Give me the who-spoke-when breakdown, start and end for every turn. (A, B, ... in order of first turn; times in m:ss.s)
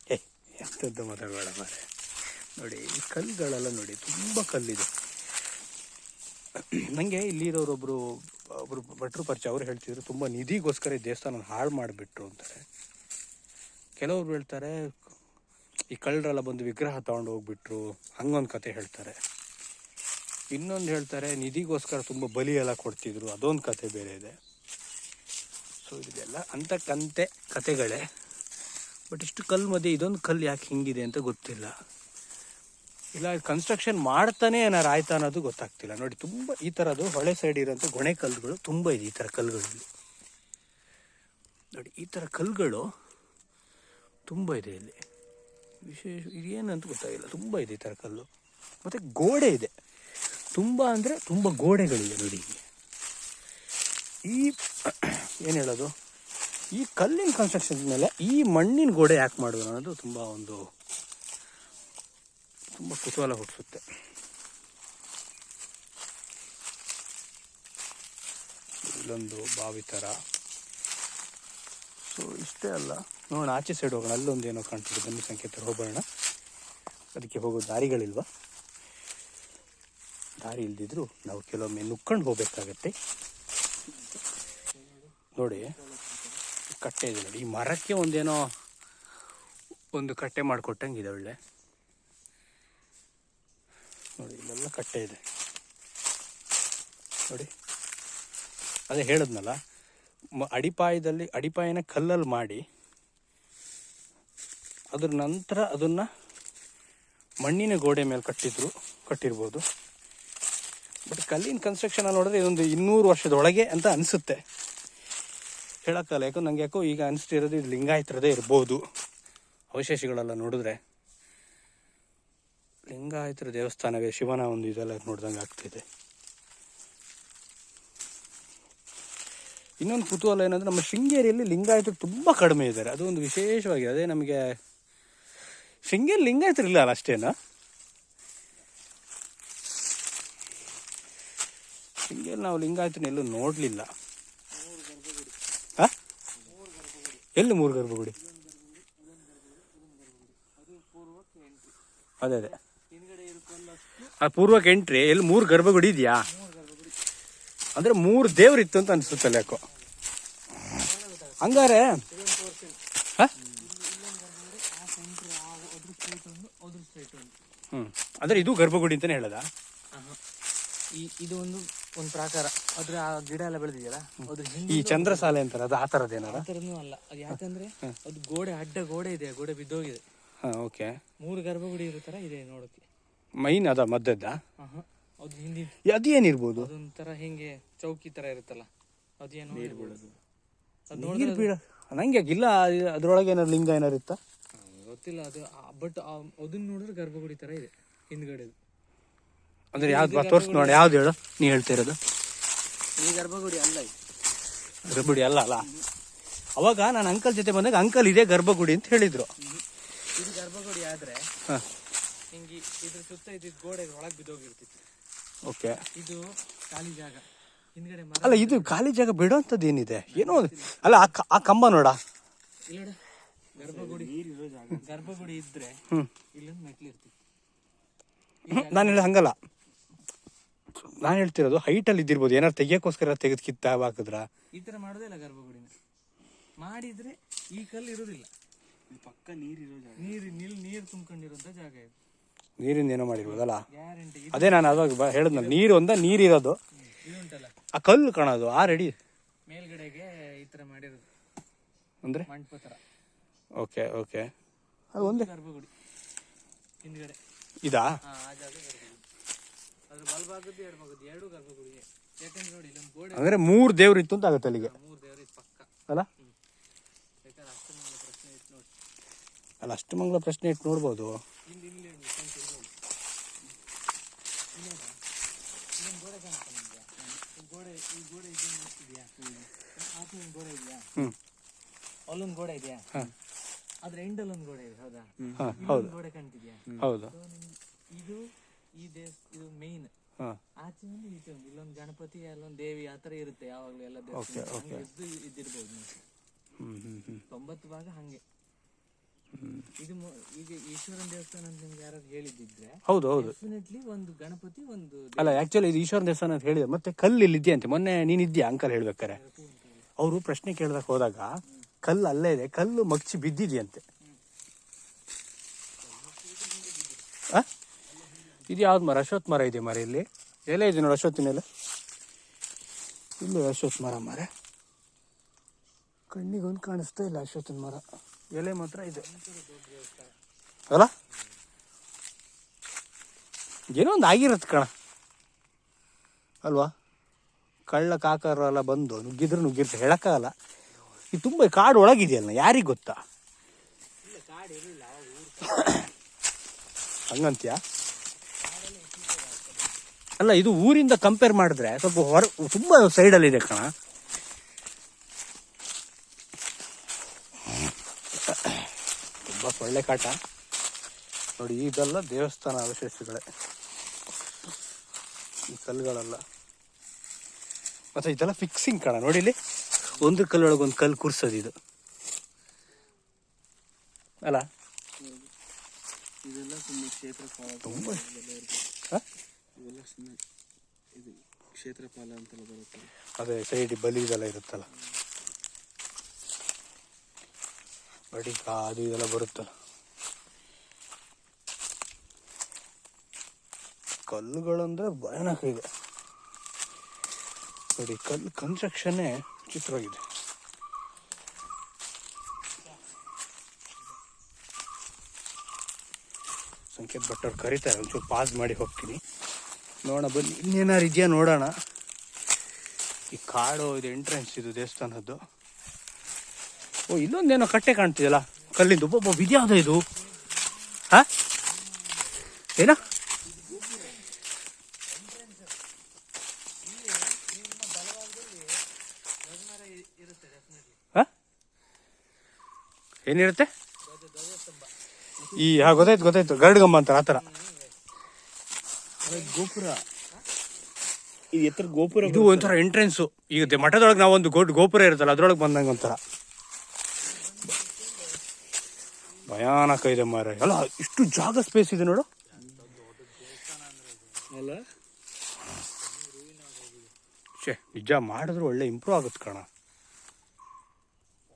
0:00.1-0:01.8 A
0:02.6-0:04.9 A
0:06.6-0:12.6 A
0:14.0-0:15.0 A
0:15.9-0:19.2 A
0:20.5-0:24.3 A
0:25.8-0:28.0 A
0:29.1-0:31.7 A
0:33.2-0:39.9 A
0:41.7-0:42.9 A
0:44.3-0:45.0 A
0:45.8-0:48.3 A
0:48.8-0:49.7 A
0:50.6-0:52.6 A
0:54.3-0:55.9 A
0:56.7-1:00.6 A
1:02.7-1:03.8 A
1:08.8-1:10.1 A
1:12.1-1:16.0 A
1:17.2-1:18.3 A
1:20.4-1:22.9 A
1:24.7-1:26.4 B
1:25.4-1:25.7 A
1:26.7-1:28.5 A
1:29.9-1:31.4 A
1:34.2-1:35.2 A
1:38.9-1:39.6 A
1:40.4-1:42.6 A
1:44.9-1:46.1 A
1:47.4-1:49.6 A
1:51.1-1:54.4 A
1:55.8-1:58.8 A
1:59.7-2:00.8 A
2:02.9-2:05.8 A
2:09.8-2:14.5 A
2:15.9-2:17.4 A
2:22.1-2:23.9 A
2:24.5-2:25.4 C
2:26.4-2:27.3 C
2:27.4-2:28.1 A
2:28.2-2:31.8 C
2:32.2-2:32.6 A
2:32.4-2:34.1 C
2:34.2-2:36.2 A
2:36.3-2:37.0 C
2:37.8-2:39.6 A
2:39.0-2:39.8 C
2:40.7-2:42.8 C
2:41.4-2:42.0 A
2:43.4-2:43.7 B
2:43.6-2:47.4 C
2:47.7-2:49.4 A
2:49.9-2:50.2 C
2:51.0-2:55.4 C
2:54.7-2:56.5 A
2:56.2-3:00.0 C
3:00.4-3:00.9 A
3:01.2-3:02.8 C
3:03.4-3:04.4 A
3:04.6-3:05.8 C
3:05.8-3:06.7 A
3:06.6-3:08.7 C
3:09.2-3:10.0 C
3:09.5-3:10.2 B
3:10.9-3:11.5 C
3:11.0-3:14.2 A
3:14.6-3:18.6 C
3:19.7-3:22.0 A
3:19.8-3:21.0 C
3:23.0-3:23.9 C
3:24.9-3:25.7 A
3:26.6-3:29.3 A
3:30.2-3:31.3 C
3:32.3-3:34.8 C
3:35.5-3:35.8 A
3:36.0-3:37.2 C
3:37.8-3:38.7 C
3:38.2-3:42.0 A
3:40.1-3:41.1 C
3:42.7-3:43.0 C
3:43.6-3:44.2 C
3:43.6-3:45.4 B
3:44.8-3:45.8 C
3:46.3-3:47.1 C
3:48.5-3:49.1 C
3:48.5-3:49.4 A
3:50.8-3:54.3 A
3:54.5-3:55.7 C
3:56.6-3:58.3 C
3:58.9-4:00.4 B
4:00.0-4:01.9 C
4:02.6-4:03.6 A
4:03.2-4:05.8 C
4:04.3-4:06.6 A
4:06.8-4:07.5 C
4:07.7-4:08.9 A
4:09.5-4:11.1 C
4:12.3-4:12.8 C
4:13.6-4:14.3 A
4:14.9-4:15.3 A
4:15.0-4:15.7 C
4:16.8-4:17.2 C
4:17.6-4:17.9 A
4:18.0-4:19.0 C
4:19.9-4:23.4 C
4:23.1-4:24.7 A
4:24.6-4:26.3 C
4:27.2-4:28.7 C
4:29.6-4:31.2 A
4:31.5-4:32.7 C
4:34.5-4:35.0 C
4:35.8-4:39.1 C
4:39.2-4:39.5 B
4:39.8-4:40.9 C
4:42.1-4:43.0 C
4:43.8-4:49.9 C
4:45.2-4:45.6 B
4:45.4-4:45.9 A
4:46.8-4:47.2 A
4:50.6-4:56.0 C
4:54.1-4:54.9 A
4:56.6-4:57.2 A
4:57.3-4:58.2 C
4:59.3-4:59.7 A
4:59.8-5:05.4 C
5:02.9-5:03.4 A
5:05.2-5:09.2 A
5:09.1-5:09.9 C
5:10.0-5:11.3 A
5:11.8-5:13.8 A
5:15.9-5:17.0 C
5:18.4-5:21.4 A
5:23.2-5:24.3 A
5:26.1-5:29.0 A
5:28.9-5:30.2 C
5:33.8-5:34.7 A
5:36.4-5:36.7 A
5:37.7-5:40.3 A
5:41.1-5:43.0 A
5:44.0-5:45.9 C
5:47.1-5:47.6 A
5:48.3-5:49.8 C
5:50.2-5:53.7 A
5:58.2-6:00.2 A
6:01.4-6:03.2 A
6:05.5-6:06.2 A
6:08.0-6:09.4 A
6:10.0-6:11.5 A
6:15.0-6:15.3 B
6:16.2-6:18.7 B
6:17.6-6:18.0 A
6:19.6-6:20.2 B
6:21.0-6:22.9 B
6:23.2-6:24.7 A
6:28.1-6:29.5 A
6:34.1-6:35.6 A
6:37.8-6:40.0 A
6:46.7-6:49.0 A
6:49.8-6:51.5 A
6:53.1-6:55.2 A
6:56.9-6:59.8 A
7:00.0-7:00.8 C
7:01.5-7:02.1 C
7:02.6-7:02.8 A
7:03.3-7:04.2 C
7:03.4-7:04.0 B
7:04.9-7:05.6 C
7:06.6-7:08.6 C
7:09.2-7:10.8 C
7:13.1-7:13.5 A
7:13.8-7:14.7 C
7:15.2-7:16.3 B
7:15.4-7:17.2 A
7:17.1-7:17.8 C
7:19.0-7:20.2 C
7:19.0-7:19.8 A
7:21.3-7:22.6 B
7:22.0-7:26.0 A
7:23.4-7:23.8 C
7:27.1-7:28.2 C
7:29.3-7:32.1 A
7:32.4-7:32.8 B
7:32.4-7:34.5 C
7:34.4-7:34.6 B
7:35.8-7:36.9 C
7:37.4-7:39.5 A